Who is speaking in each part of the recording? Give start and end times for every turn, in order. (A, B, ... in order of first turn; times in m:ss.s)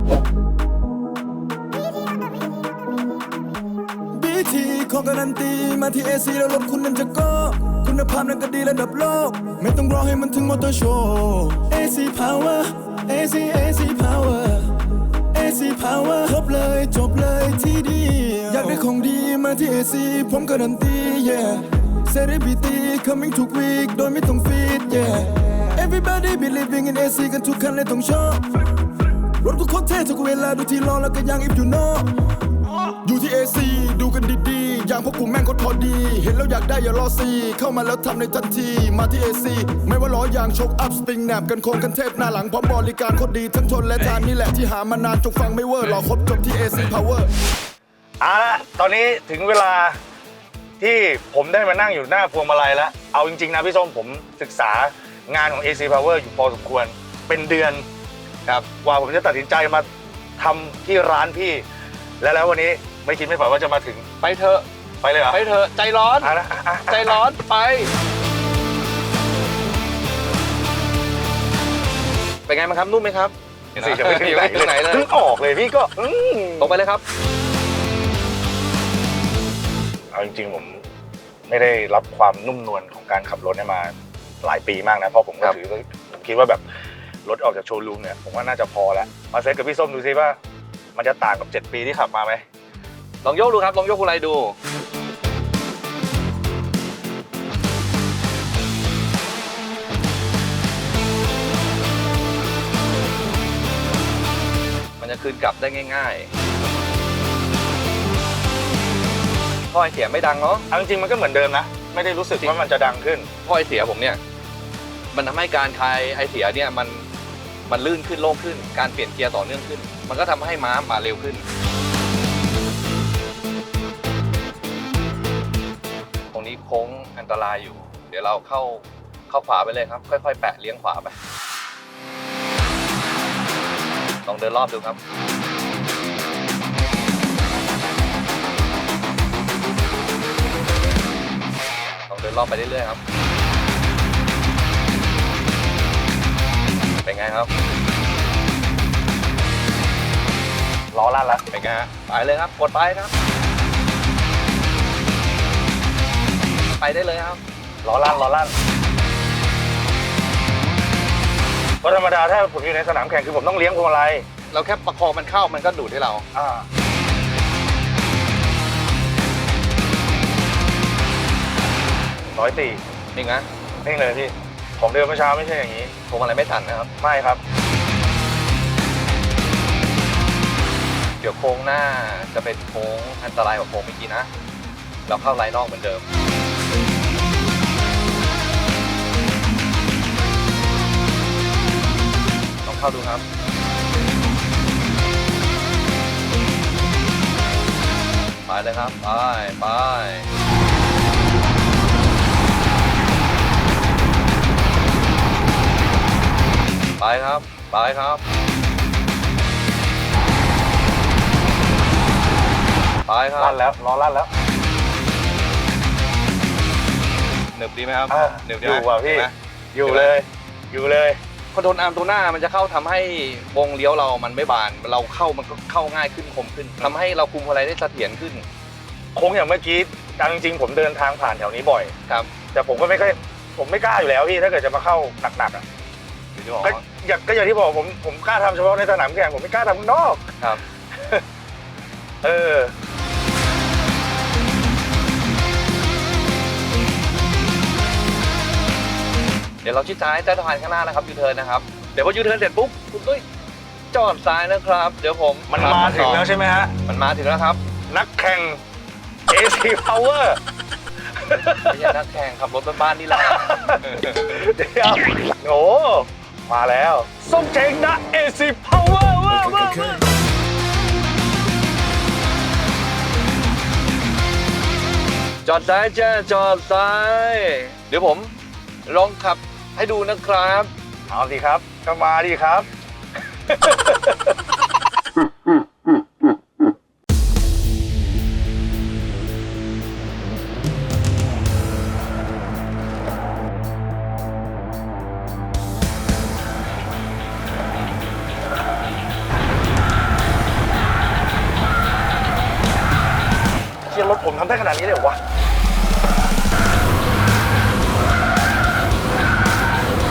0:04.1-0:28.5 A
0:29.3-0:32.2 A
0:32.8-0:47.3 A
0:48.2-0:50.0 B
0:50.8-0:57.8 B
0:58.8-0:59.9 B
1:00.4-1:01.6 B
1:02.2-1:04.1 B
1:04.2-1:04.6 C
1:05.0-1:05.4 B
1:05.3-1:06.3 C
1:06.2-1:07.2 B
1:06.9-1:07.9 C
1:12.5-1:15.1 C
1:13.8-1:16.8 B
1:16.6-1:17.0 C
1:20.1-1:20.8 B
1:21.5-1:26.6 B
1:27.2-1:30.4 B
1:31.0-1:32.4 B
1:33.2-1:34.6 C
1:45.0-1:46.3 C
1:49.7-1:50.7 C
1:50.7-1:53.3 B
1:53.4-1:54.2 C
1:55.1-1:57.1 C
1:57.7-2:01.4 C
2:06.3-2:11.2 C
2:14.2-2:15.0 C
2:22.1-2:23.0 C
2:27.0-2:27.5 C
2:30.9-2:31.4 B
2:31.5-2:33.1 C
2:36.8-2:37.4 C
2:37.8-2:38.5 B
2:41.8-2:44.2 B
2:44.5-2:46.2 C
2:46.3-2:46.7 B
2:52.3-2:52.8 B
2:53.2-2:53.5 C
2:53.8-2:55.9 B
2:56.1-2:56.9 C
2:57.0-2:57.4 B
3:01.2-3:04.3 C
3:05.1-3:06.0 C
3:12.6-3:13.2 C
3:18.5-3:20.3 C
3:27.0-3:28.2 C
3:33.1-3:33.6 C
3:33.4-3:34.3 B
3:37.5-3:40.1 C
3:38.1-3:41.2 B
3:41.5-3:48.4 C
3:49.2-3:51.9 B
3:52.5-3:55.6 B
3:56.4-3:56.8 C
3:56.6-4:00.2 B
4:00.9-4:01.2 B
4:02.2-4:02.7 B
4:09.6-4:13.2 C
4:13.9-4:16.3 C
4:15.5-4:16.7 B
4:16.9-4:17.6 C
4:17.9-4:18.6 B
4:19.3-4:20.4 B
4:21.2-4:21.9 B
4:21.7-4:24.4 C
4:23.1-4:30.0 B
4:35.4-4:38.3 C
4:38.9-4:40.7 C
4:41.1-4:42.7 B
4:43.5-4:44.2 B
5:03.9-5:05.2 B